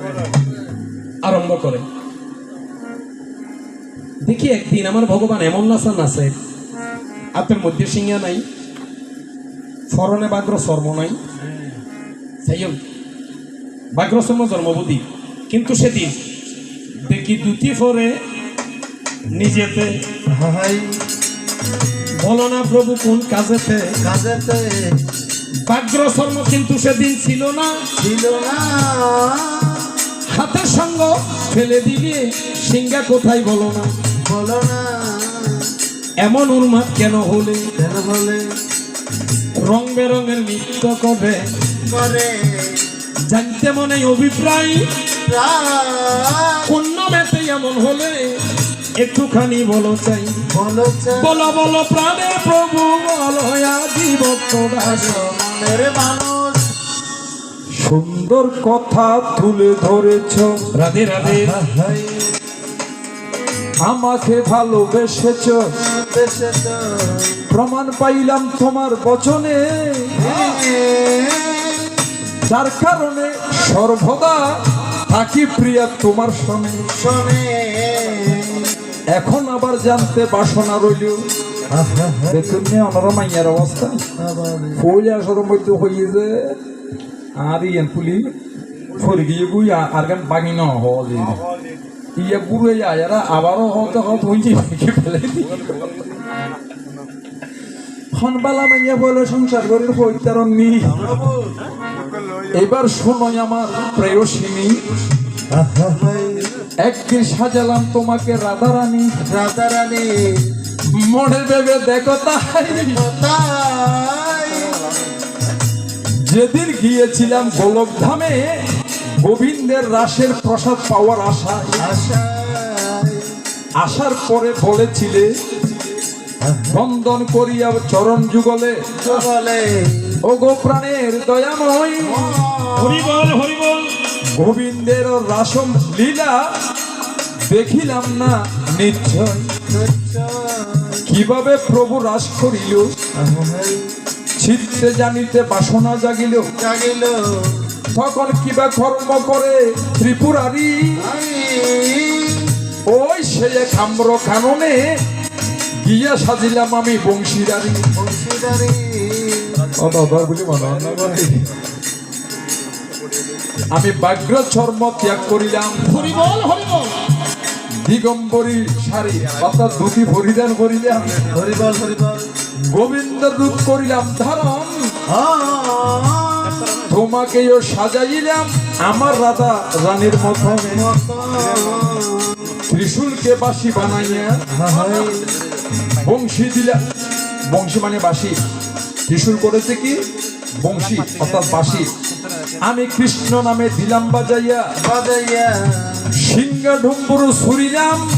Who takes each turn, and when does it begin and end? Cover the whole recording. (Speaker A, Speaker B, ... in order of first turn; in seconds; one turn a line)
Speaker A: 1.2-1.8
Speaker A: 4.2-6.3
Speaker A: 7.3-8.4
Speaker A: 9.9-11.2
Speaker A: 12.4-12.8
Speaker A: 13.9-16.2
Speaker A: 17.0-18.1
Speaker A: 19.3-20.0
Speaker B: 20.3-21.0
Speaker A: 22.2-23.9
Speaker B: 24.0-25.0
Speaker A: 25.7-27.7
Speaker B: 28.0-29.9
Speaker A: 30.3-33.9
Speaker B: 34.3-35.7
Speaker A: 36.2-37.6
Speaker B: 37.8-38.5
Speaker A: 39.6-41.4
Speaker B: 41.9-42.9
Speaker A: 43.3-44.8
Speaker B: 45.2-46.7
Speaker A: 46.6-48.3
Speaker A: 49.0-50.3
Speaker B: 50.5-51.5
Speaker A: 51.1-55.3
Speaker B: 54.8-56.7
Speaker C: 57.8-60.7
Speaker A: 60.7-61.6
Speaker B: 61.2-62.3
Speaker C: 63.8-65.6
Speaker B: 66.0-67.5
Speaker C: 67.5-70.3
Speaker B: 70.1-72.0
Speaker C: 72.5-76.8
Speaker B: 76.9-78.7
Speaker C: 79.1-81.2
Speaker B: 81.7-82.7
Speaker C: 82.3-84.0
Speaker B: 84.2-84.8
Speaker C: 84.8-86.6
Speaker C: 87.3-88.3
Speaker C: 88.9-91.4
Speaker C: 92.2-95.6
Speaker C: 98.1-101.1
Speaker B: 100.9-101.5
Speaker C: 102.5-104.8
Speaker B: 105.5-106.6
Speaker C: 106.8-109.1
Speaker B: 109.3-110.5
Speaker C: 110.9-113.0
Speaker B: 112.7-114.8
Speaker C: 116.3-118.6
Speaker C: 119.2-121.8
Speaker B: 121.8-123.3
Speaker C: 123.8-125.3
Speaker B: 126.4-126.8
Speaker C: 126.7-129.1
Speaker B: 129.0-130.2
Speaker C: 130.2-132.4
Speaker B: 132.0-133.1
Speaker A: 132.8-133.9
Speaker C: 134.4-136.5
Speaker C: 137.5-139.5
Speaker B: 139.7-141.1
Speaker C: 141.1-142.9
Speaker B: 143.1-143.9
Speaker C: 144.4-146.5
Speaker B: 146.6-147.7
Speaker C: 147.9-151.0
Speaker B: 151.0-152.6
Speaker C: 152.9-154.9
Speaker C: 155.8-157.8
Speaker B: 157.9-159.7
Speaker C: 159.7-161.4
Speaker C: 163.7-166.2
Speaker A: 165.8-166.9
Speaker C: 167.8-171.2
Speaker B: 171.3-172.3
Speaker C: 172.7-174.7
Speaker B: 175.1-176.8
Speaker C: 176.8-180.9
Speaker B: 180.6-182.4
Speaker C: 182.7-184.4
Speaker B: 184.5-185.3
Speaker C: 186.0-186.8
Speaker C: 187.5-188.4
Speaker C: 189.1-190.0
Speaker C: 190.6-191.9
Speaker C: 192.6-194.7
Speaker B: 194.8-196.1
Speaker C: 196.1-198.0